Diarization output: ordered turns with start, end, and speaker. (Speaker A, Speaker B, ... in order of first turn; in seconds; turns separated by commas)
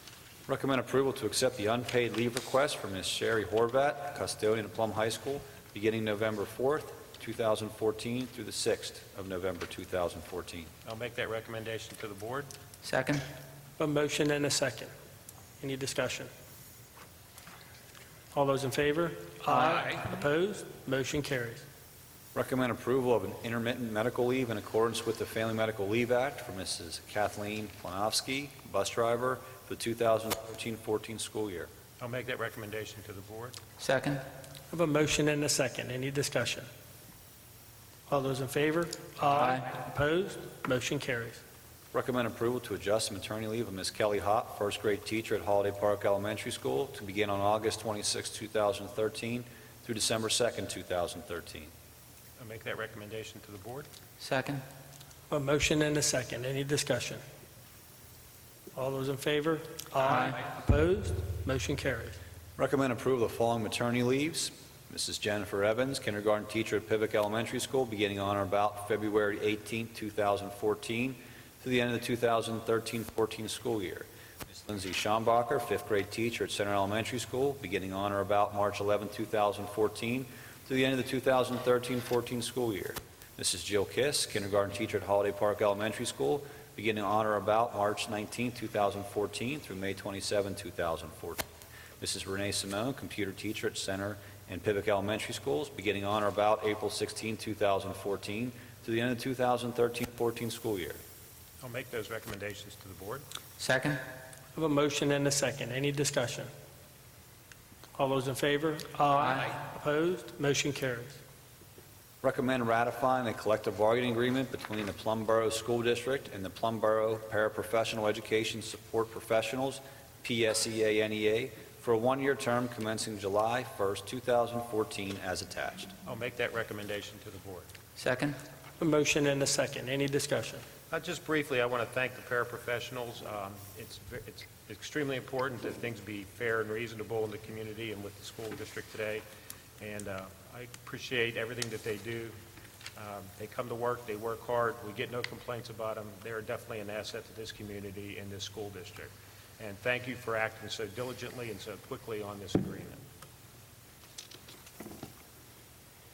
Speaker A: 0.5-10.7, Speaker B: 10.8-12.5, Speaker C: 12.8-13.2, Speaker D: 13.8-14.9, Speaker D: 15.6-16.3, Speaker D: 18.3-21.6, Speaker A: 22.3-31.7, Speaker B: 32.0-33.6, Speaker C: 33.8-34.2, Speaker D: 34.7-36.7, Speaker D: 38.1-41.4, Speaker C: 39.3-39.6, Speaker A: 41.9-51.7, Speaker B: 52.4-53.9, Speaker C: 54.2-54.6, Speaker D: 55.3-57.2, Speaker D: 58.7-62.2, Speaker C: 60.0-60.3, Speaker A: 62.6-91.4, Speaker A: 92.0-101.0, Speaker B: 101.6-103.2, Speaker C: 103.6-104.0, Speaker D: 104.5-106.5, Speaker D: 108.0-111.2, Speaker A: 112.2-125.9, Speaker B: 126.0-127.7, Speaker C: 128.0-128.4, Speaker D: 128.8-130.6, Speaker B: 130.9-139.2, Speaker B: 139.8-142.3, Speaker B: 142.9-153.0